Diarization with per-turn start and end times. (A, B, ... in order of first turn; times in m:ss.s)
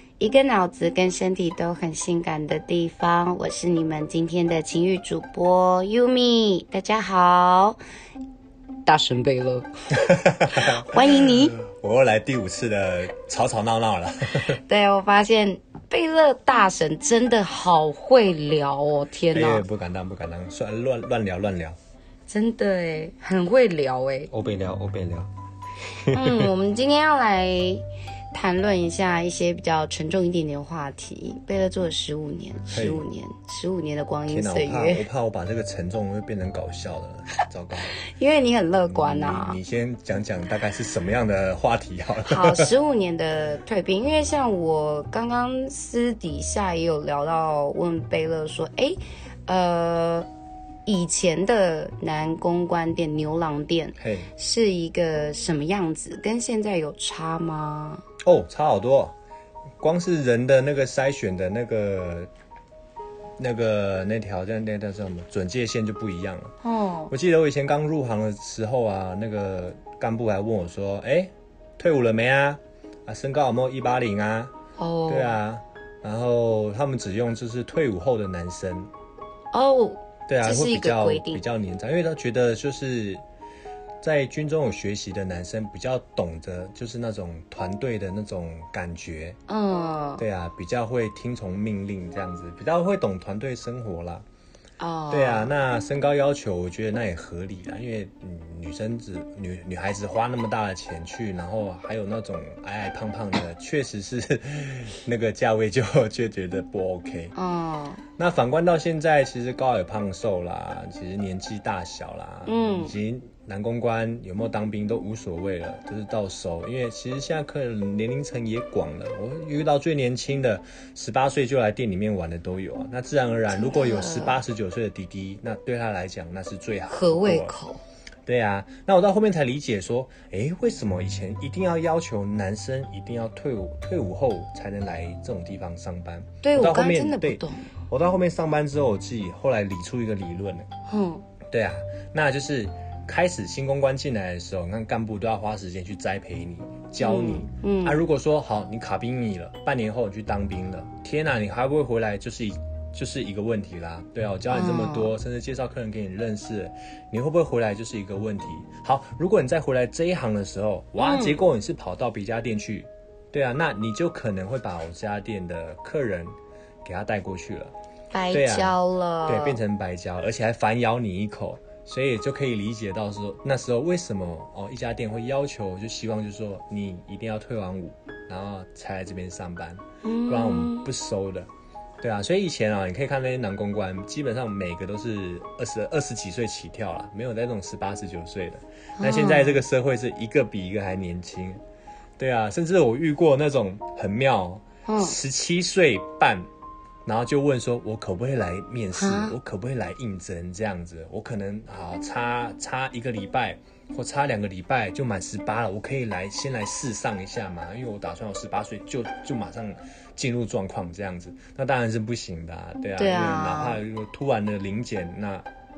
0:00.2-0:07.8 A
0:08.9-0:11.6 A
0:10.0-0:14.6 B
0:14.5-0:19.6 A
0:19.3-0:21.8 B
0:22.3-0:24.3 A
0:24.3-0:25.3 B
0:26.1-0:26.5 B
0:26.1-0:35.1 A
0:32.7-0:33.0 B
0:34.3-0:38.0 B
0:38.0-0:39.6 A
0:38.9-0:42.7 B
0:42.2-0:50.3 A
0:50.9-0:58.0 A
0:54.0-0:54.3 B
0:58.2-0:59.1 B
0:59.8-1:02.3 B
1:03.4-1:06.5 B
1:06.6-1:07.1 A
1:07.1-1:14.5 B
1:14.8-1:15.4 A
1:15.1-1:18.9 B
1:19.5-1:21.4 A
1:20.3-1:23.2 B
1:24.0-1:29.4 B
1:29.5-1:30.2 A
1:30.2-1:34.2 B
1:34.8-1:35.5 A
1:35.1-1:47.4 B
1:47.4-1:48.0 A
1:48.2-2:07.6 B
1:52.5-1:52.9 A
2:03.5-2:04.4 A
2:06.9-2:07.8 A
2:08.3-2:20.7 B
2:16.4-2:17.7 A
2:20.9-2:21.2 A
2:21.5-2:46.3 B
2:27.0-2:28.0 A
2:34.5-2:35.2 A
2:41.0-2:41.4 A
2:46.8-2:47.7 B
2:48.1-2:49.6 A
2:48.3-3:01.5 B
3:00.0-3:00.9 A
3:02.0-3:11.6 B
3:09.0-3:09.6 A
3:12.2-3:16.5 B
3:14.9-3:15.2 A
3:17.0-3:35.5 B
3:19.0-3:19.4 A
3:33.0-3:33.8 A